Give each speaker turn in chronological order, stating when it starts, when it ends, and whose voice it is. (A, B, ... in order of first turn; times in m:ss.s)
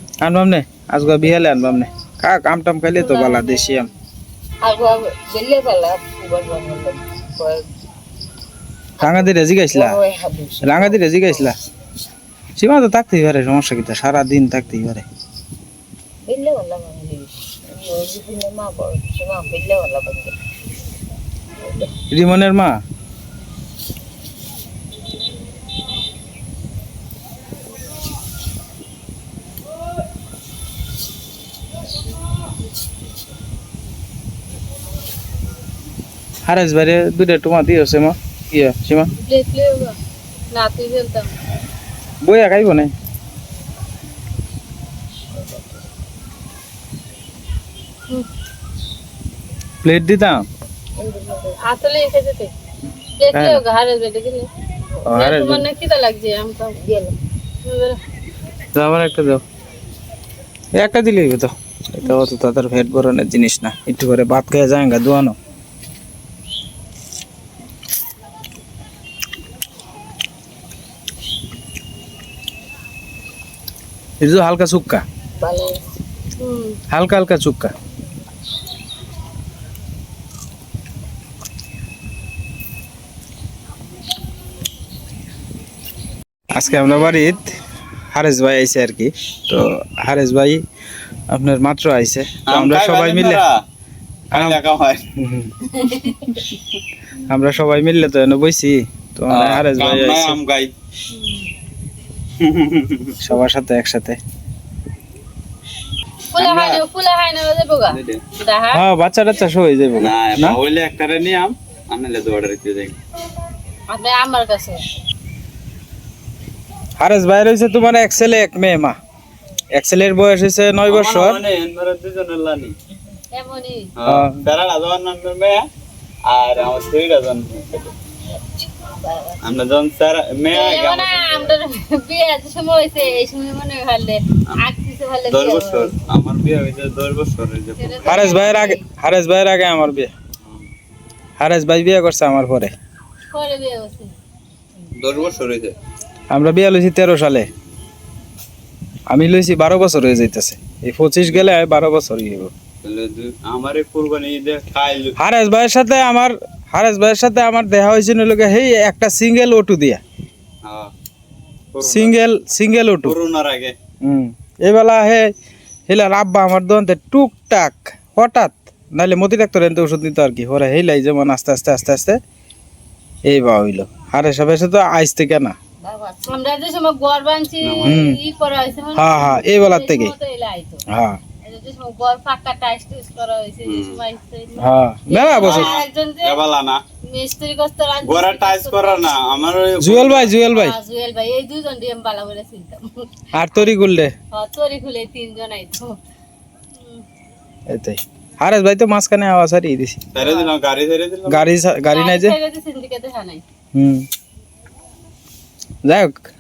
0:00.2-0:03.9 A
0:03.0-0:03.9 B
0:04.6-0:07.6 C
0:09.0-0:11.5 C
0:09.0-0:10.0 A
0:10.6-0:11.6 A
0:12.6-0:15.1 A
0:16.2-0:20.4 C
0:21.6-0:21.9 C
0:22.1-0:22.8 A
0:36.5-0:39.1 A
0:39.1-0:40.0 B
0:40.5-0:41.4 B
0:42.2-0:42.9 A
0:45.3-0:45.8 C
0:49.8-0:50.5 A
0:51.0-0:51.6 C
0:51.6-0:52.5 B
0:53.2-0:54.5 B
0:53.3-0:53.6 A
0:55.1-0:55.6 A
0:55.1-0:56.8 B
0:56.8-0:57.2 C
0:57.6-0:58.0 B
0:58.8-0:59.4 A
1:00.8-1:05.4 A
1:14.2-1:15.0 A
1:15.4-1:15.9 C
1:16.4-1:16.8 B
1:16.9-1:17.7 A
1:26.5-1:27.5 A
1:28.1-1:30.6 A
1:31.3-1:33.4 A
1:32.5-1:33.6 D
1:34.3-1:35.1 D
1:34.3-1:34.6 A
1:35.2-1:35.5 A
1:37.3-1:40.4 A
1:39.3-1:40.7 D
1:42.4-1:43.2 D
1:43.2-1:44.2 A
1:46.4-1:48.8 B
1:46.4-1:46.8 D
1:47.9-1:48.2 D
1:48.7-1:50.6 A
1:50.0-1:53.0 D
1:53.9-1:54.8 B
1:57.0-1:59.0 A
1:59.8-2:01.4 A
2:00.9-2:02.7 D
2:03.3-2:03.9 B
2:04.0-2:05.7 D
2:04.0-2:04.4 A
2:06.3-2:07.9 D
2:08.7-2:09.4 C
2:09.4-2:11.6 D
2:10.5-2:16.0 B
2:15.3-2:18.6 D
2:17.8-2:18.8 B
2:18.0-2:20.1 A
2:20.4-2:20.7 D
2:21.4-2:22.7 A
2:23.3-2:24.1 B
2:25.0-2:25.8 D
2:26.3-2:27.5 A
2:29.1-2:32.5 A
2:32.8-2:35.2 D
2:35.2-2:40.0 A
2:40.6-2:40.9 D
2:41.7-2:42.2 D
2:41.8-2:43.2 A
2:43.0-2:43.8 D
2:44.0-2:45.3 A
2:45.9-2:52.2 A
2:53.2-2:55.6 A
2:55.8-2:56.4 C
2:56.3-3:00.8 B
2:57.6-2:58.0 D
2:57.8-2:58.2 A
2:59.0-3:00.1 A
3:00.9-3:01.2 A
3:01.4-3:06.4 B
3:03.6-3:04.0 D
3:04.6-3:05.7 A
3:05.4-3:06.8 D
3:07.0-3:09.2 B
3:08.0-3:10.4 D
3:09.8-3:10.8 A
3:10.5-3:13.7 B
3:13.3-3:14.1 A
3:14.3-3:16.0 B
3:16.8-3:17.0 B
3:17.7-3:20.0 A
3:20.1-3:21.5 D
3:20.2-3:20.5 B
3:21.3-3:22.3 A
3:21.9-3:23.4 B
3:23.8-3:24.1 A
3:25.8-3:26.3 A